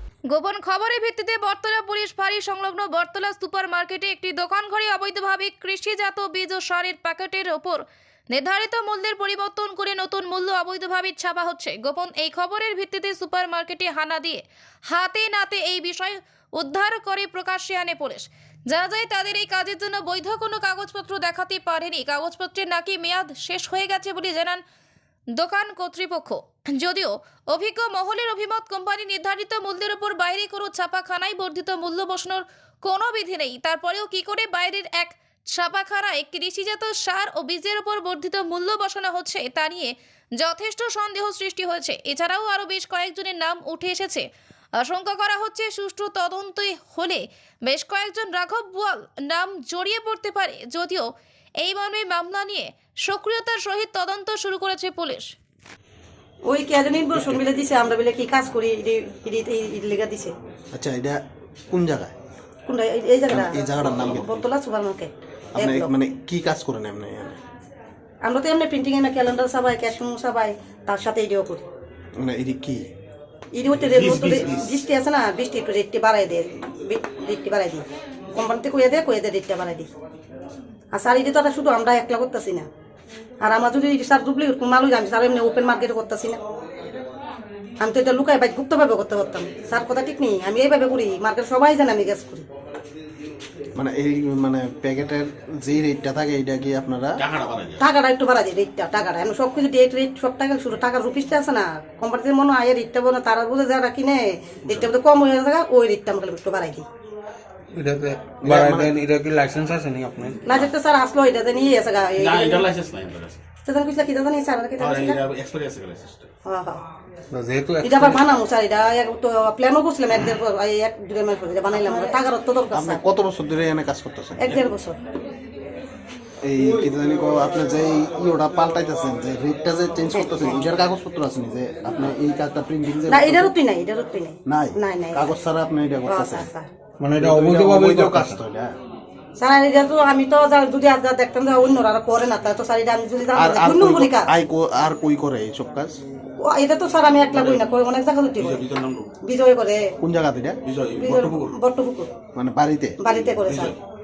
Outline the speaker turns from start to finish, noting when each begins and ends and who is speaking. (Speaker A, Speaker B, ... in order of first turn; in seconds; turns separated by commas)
Speaker A: 0.3-24.6, Speaker A: 25.4-44.2, Speaker A: 44.8-51.1, Speaker A: 51.6-55.3, Speaker B: 56.5-60.3, Speaker C: 60.7-62.1, Speaker B: 62.7-65.9, Speaker C: 63.3-64.4, Speaker D: 63.9-64.2, Speaker C: 65.5-67.4, Speaker B: 68.2-71.6, Speaker C: 72.2-72.8, Speaker B: 73.5-77.8, Speaker D: 73.8-74.8, Speaker B: 78.3-79.9, Speaker B: 80.9-82.7, Speaker B: 83.4-86.4, Speaker B: 87.8-92.4, Speaker C: 93.8-97.2, Speaker D: 97.2-97.9, Speaker B: 97.8-106.8, Speaker D: 104.7-104.9, Speaker E: 107.7-110.4, Speaker C: 108.4-108.9, Speaker B: 110.5-112.7, Speaker D: 112.2-113.4, Speaker B: 113.6-115.2, Speaker D: 114.8-116.3, Speaker B: 116.5-116.8, Speaker E: 117.3-118.2, Speaker B: 117.8-123.0, Speaker C: 122.7-124.6, Speaker B: 124.4-125.0, Speaker C: 126.4-133.5, Speaker B: 130.1-130.6, Speaker B: 133.1-135.3, Speaker C: 134.4-136.5, Speaker B: 136.1-136.7, Speaker E: 137.0-138.4, Speaker C: 137.2-138.7, Speaker B: 139.4-144.3, Speaker C: 143.3-146.0, Speaker B: 146.4-148.6, Speaker D: 147.3-147.7, Speaker D: 148.4-149.1, Speaker B: 149.2-149.8, Speaker C: 150.0-150.6, Speaker D: 150.6-151.5, Speaker B: 151.0-152.1, Speaker C: 152.3-153.0, Speaker B: 153.0-153.7, Speaker D: 153.2-153.8